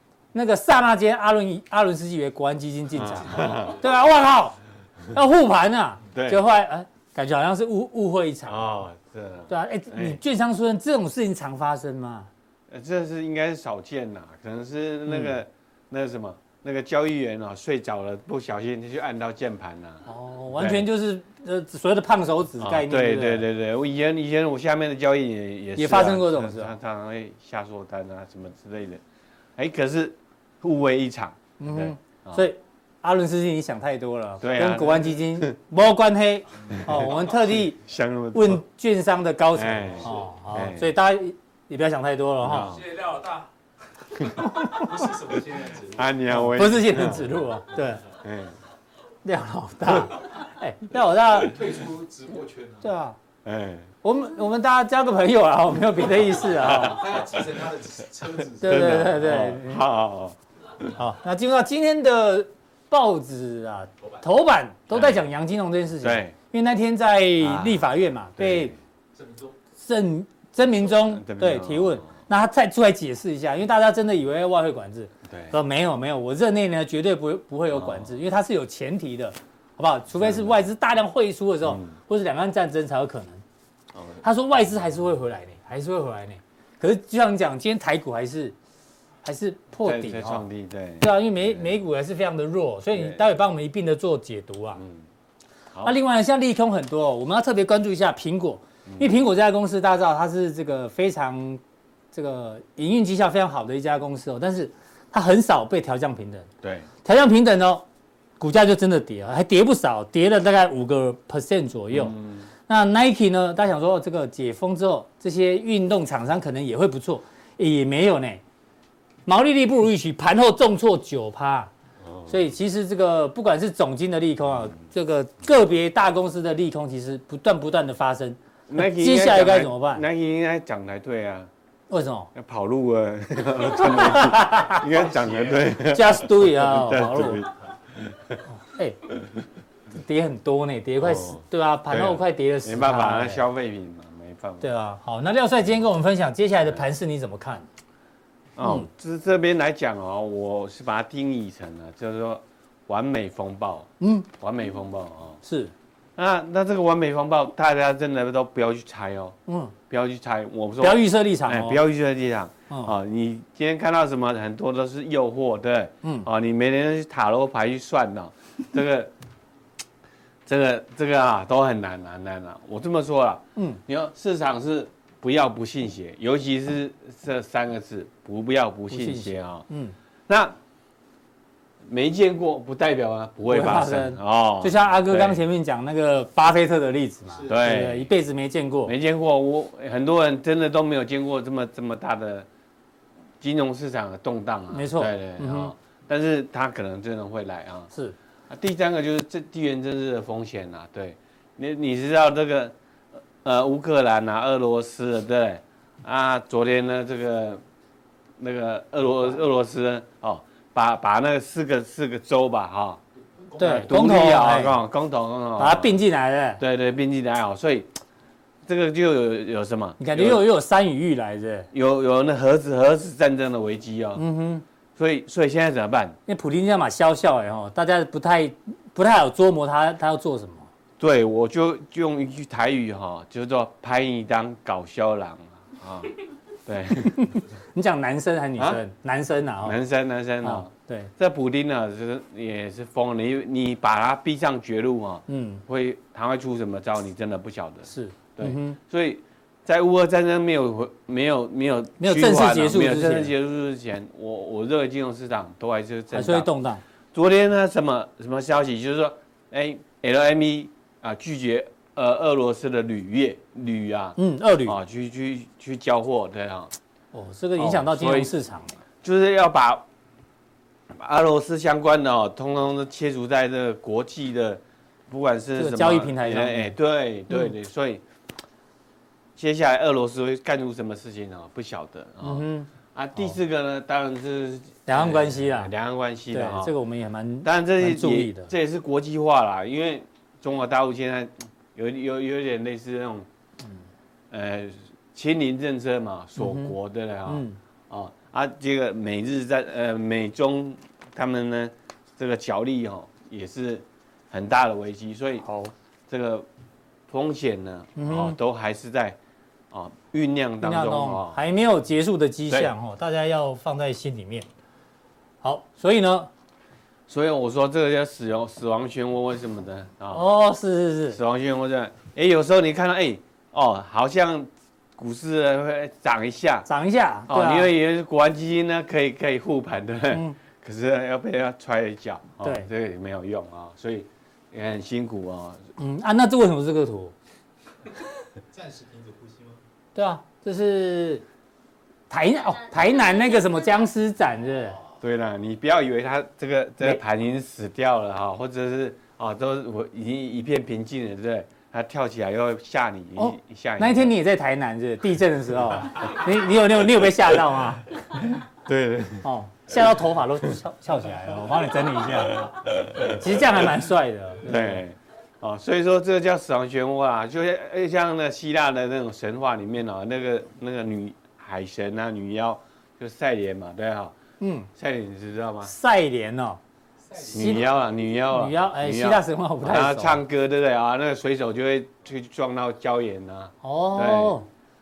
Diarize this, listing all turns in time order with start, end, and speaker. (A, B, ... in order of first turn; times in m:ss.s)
0:00.3-0:04.6 A
0:02.9-0:03.8 B
0:05.1-0:08.7 A
0:06.1-0:06.4 B
0:08.5-0:10.2 B
0:09.5-0:12.3 A
0:12.7-0:20.0 B
0:15.1-0:15.3 A
0:20.0-0:23.4 A
0:20.6-0:20.8 B
0:22.6-0:29.0 B
0:25.8-0:26.7 A
0:29.6-0:32.4 B
0:31.6-0:37.8 A
0:34.4-0:35.5 B
0:36.7-0:38.6 B
0:38.3-0:42.8 A
0:39.6-0:40.9 B
0:42.4-0:42.9 B
0:42.9-0:43.5 C
0:44.4-0:44.9 A
0:44.7-0:46.0 C
0:45.9-0:47.3 B
0:46.3-0:48.0 A
0:48.2-0:48.5 B
0:49.2-0:51.6 A
0:51.5-0:52.8 C
0:52.8-0:53.2 A
0:53.4-0:53.9 B
0:54.0-0:57.1 A
0:56.6-0:57.2 B
0:56.9-0:58.9 C
0:58.6-1:00.4 B
0:58.6-0:59.8 A
1:00.9-1:08.7 A
1:04.9-1:05.2 B
1:06.0-1:06.3 B
1:07.4-1:07.8 B
1:08.4-1:08.7 B
1:09.1-1:09.5 C
1:09.8-1:23.4 A
1:10.9-1:12.1 B
1:15.3-1:15.5 B
1:17.7-1:18.1 B
1:20.2-1:20.6 B
1:24.2-1:28.5 A
1:29.2-1:30.4 A
1:29.8-1:31.7 B
1:31.0-1:34.8 A
1:32.9-1:33.2 B
1:34.8-1:35.0 B
1:35.8-1:41.6 A
1:42.1-1:46.5 A
1:47.0-1:47.8 A
1:48.4-1:52.1 A
1:51.9-1:52.5 B
1:52.7-1:58.4 A
1:59.2-2:01.7 A
2:02.3-2:10.0 A
2:08.7-2:11.5 B
2:11.9-2:12.3 A
2:12.3-2:18.4 B
2:13.7-2:14.8 A
2:15.8-2:17.4 A
2:18.5-2:19.0 A
2:19.9-2:23.4 A
2:21.0-2:24.7 B
2:24.6-2:27.6 A
2:28.6-2:35.4 B
2:28.6-2:28.9 A
2:34.0-2:34.3 A
2:35.4-2:35.7 A
2:36.2-2:39.4 B
2:39.5-2:39.7 A
2:39.9-2:49.1 B
2:40.8-2:41.8 A
2:50.4-2:59.6 B
2:58.9-2:59.9 A
3:00.3-3:00.6 B
3:01.8-3:05.4 B
3:03.5-3:08.9 A
3:07.5-3:08.1 B
3:08.8-3:12.5 B
3:13.4-3:17.9 B
3:14.7-3:15.7 A
3:18.5-3:27.6 B
3:28.4-3:33.0 B
3:33.6-3:34.8 A
3:33.6-3:36.0 B
3:35.6-3:36.6 A
3:36.6-3:37.9 B
3:38.6-3:40.4 B
3:40.0-3:41.7 A
3:41.7-3:44.2 B
3:44.2-3:44.6 A
3:45.0-3:46.2 B
3:46.3-3:50.7 A
3:51.0-3:57.4 B
3:57.2-3:59.8 A
3:59.6-4:16.5 B
4:00.4-4:01.1 A
4:05.3-4:05.6 A
4:07.9-4:08.8 A
4:12.0-4:13.3 A
4:16.1-4:16.8 A
4:17.1-4:26.7 B
4:24.2-4:24.8 A
4:27.1-4:28.7 A
4:27.6-4:28.3 B
4:29.0-4:29.8 B
4:30.9-4:38.0 B
4:35.6-4:36.7 A
4:39.4-4:46.7 B
4:42.2-4:42.7 A
4:44.9-4:45.7 A
4:46.3-4:48.5 A
4:47.4-4:53.3 B
4:54.3-5:05.4 B
4:56.4-4:56.8 A
4:57.3-4:57.6 A
5:05.4-5:05.7 A
5:06.1-5:06.5 B
5:07.1-5:09.2 B
5:08.0-5:08.4 A
5:09.7-5:11.4 B
5:10.6-5:14.5 A
5:15.4-5:16.3 A
5:17.1-5:20.2 B
5:20.1-5:21.2 A
5:21.1-5:26.7 B
5:26.7-5:27.7 A
5:27.3-5:35.6 B
5:30.1-5:30.4 A
5:32.4-5:32.7 A
5:35.8-5:37.1 A
5:38.5-5:39.6 C
5:39.9-5:41.2 A
5:42.1-5:44.8 A
5:45.0-5:54.1 B
5:53.2-5:57.9 A
5:58.2-5:59.8 B
5:59.2-6:04.8 A
6:02.3-6:03.2 B
6:04.4-6:14.2 B
6:14.4-6:14.7 A
6:14.7-6:15.7 B
6:15.6-6:16.6 A
6:17.1-6:17.4 C
6:17.3-6:24.4 B
6:17.3-6:17.7 A
6:18.3-6:20.2 A
6:23.6-6:24.4 A